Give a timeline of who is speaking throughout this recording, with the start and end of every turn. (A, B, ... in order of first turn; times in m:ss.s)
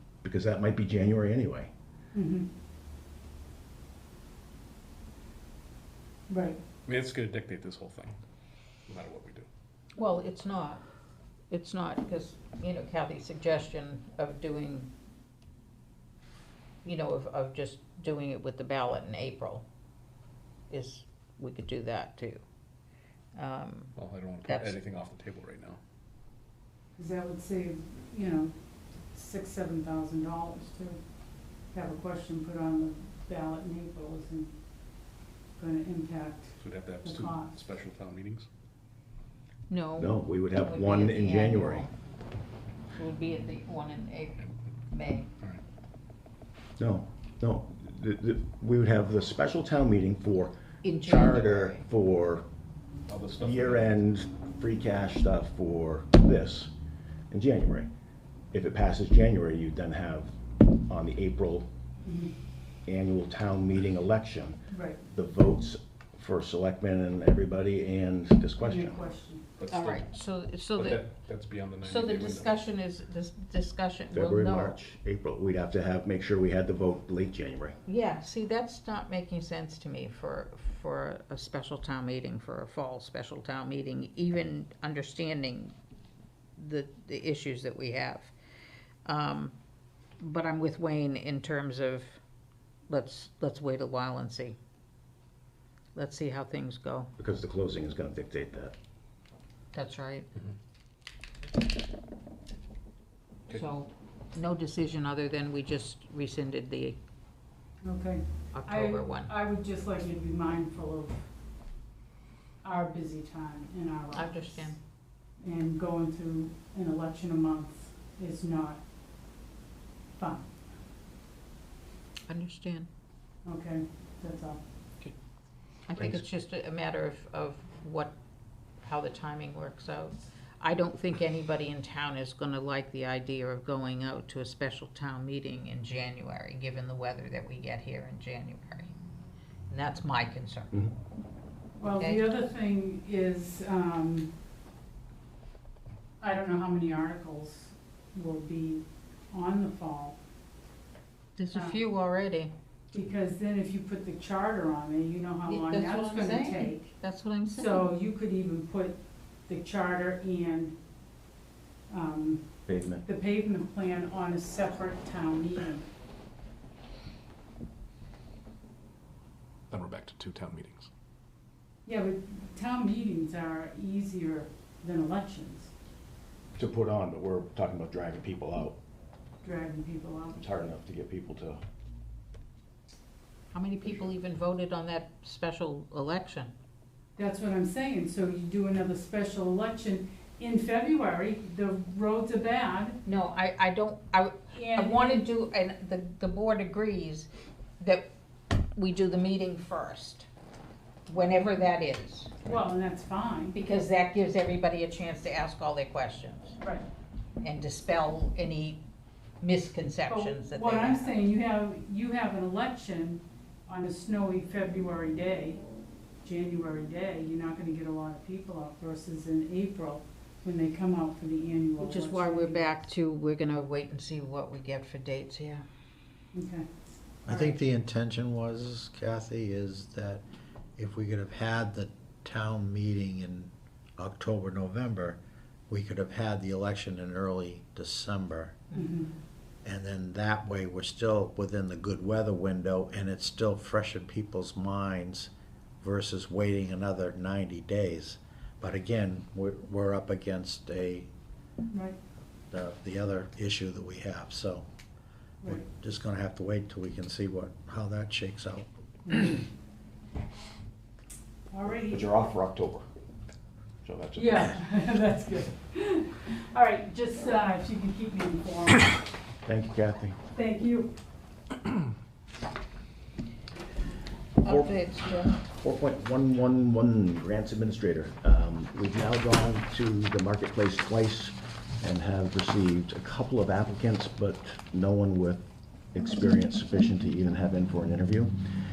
0:00.2-0:01.7 A
0:02.1-0:02.5 B
0:06.3-0:06.6 B
0:06.9-0:08.2 C
0:08.9-0:09.5 C
0:10.0-0:10.8 D
0:11.5-0:14.9 D
0:16.8-0:19.6 D
0:20.7-0:22.4 D
0:23.4-0:24.0 D
0:24.0-0:25.8 C
0:24.5-0:24.8 D
0:27.0-0:28.5 B
0:29.1-0:31.0 B
0:31.7-0:34.5 B
0:35.6-0:37.6 B
0:36.6-0:38.5 C
0:39.7-0:41.9 D
0:40.0-0:41.9 A
0:42.9-0:45.3 D
0:46.8-0:52.4 A
0:50.8-0:51.8 D
0:53.1-0:54.0 C
0:53.4-0:56.7 A
0:57.3-0:57.9 A
0:58.5-1:00.3 A
1:00.9-1:01.7 A
1:02.0-1:02.3 B
1:02.8-1:09.0 A
1:04.7-1:05.0 B
1:08.6-1:09.5 B
1:09.6-1:10.1 C
1:09.7-1:11.1 D
1:10.8-1:12.6 C
1:11.8-1:14.8 D
1:14.1-1:17.8 A
1:17.9-1:25.8 D
1:26.6-1:28.3 D
1:29.0-1:29.6 D
1:30.2-1:32.2 D
1:32.9-1:34.6 D
1:36.0-1:37.1 D
1:37.2-1:38.8 A
1:39.7-1:40.3 D
1:43.5-1:47.0 D
1:47.8-1:51.2 B
1:48.5-1:49.3 D
1:52.6-1:54.8 B
1:54.1-1:54.8 D
1:55.4-1:58.8 B
2:00.2-2:00.5 B
2:02.3-2:02.9 D
2:03.4-2:04.6 B
2:05.9-2:08.2 D
2:08.8-2:18.9 D
2:19.7-2:20.7 D
2:21.8-2:24.3 B
2:21.9-2:22.2 D
2:26.2-2:30.2 B
2:31.4-2:32.5 D
2:31.5-2:31.8 B
2:32.9-2:36.9 B
2:35.5-2:37.9 D
2:37.5-2:40.8 B
2:41.9-2:42.5 B
2:42.7-2:43.0 A
2:43.0-2:45.9 B
2:49.7-2:50.9 C
2:51.9-2:55.7 B
2:56.6-2:58.8 A
2:59.4-3:00.4 B
3:00.3-3:01.6 A
3:03.5-3:06.5 D
3:07.2-3:13.0 B
3:13.0-3:18.1 D
3:14.5-3:15.3 B
3:18.7-3:20.3 D
3:21.1-3:22.4 D
3:22.5-3:23.6 B
3:23.5-3:26.6 D
3:27.4-3:28.8 D
3:29.4-3:31.1 D
3:30.1-3:35.6 B
3:36.2-3:42.8 B
3:41.8-3:45.6 D
3:46.3-3:46.6 B
3:47.2-3:47.6 B
3:47.2-3:50.2 E
3:50.8-3:58.6 E
3:58.7-3:59.1 B
3:59.6-4:05.3 E
4:05.8-4:11.1 E
4:11.7-4:12.0 B
4:12.5-4:14.7 E
4:15.4-4:18.7 E
4:19.0-4:19.4 B
4:21.5-4:22.1 B
4:21.8-4:22.8 A
4:23.8-4:24.6 A
4:24.2-4:28.9 B
4:29.4-4:30.2 A
4:30.3-4:30.9 B
4:34.4-4:35.4 D
4:34.4-4:48.3 A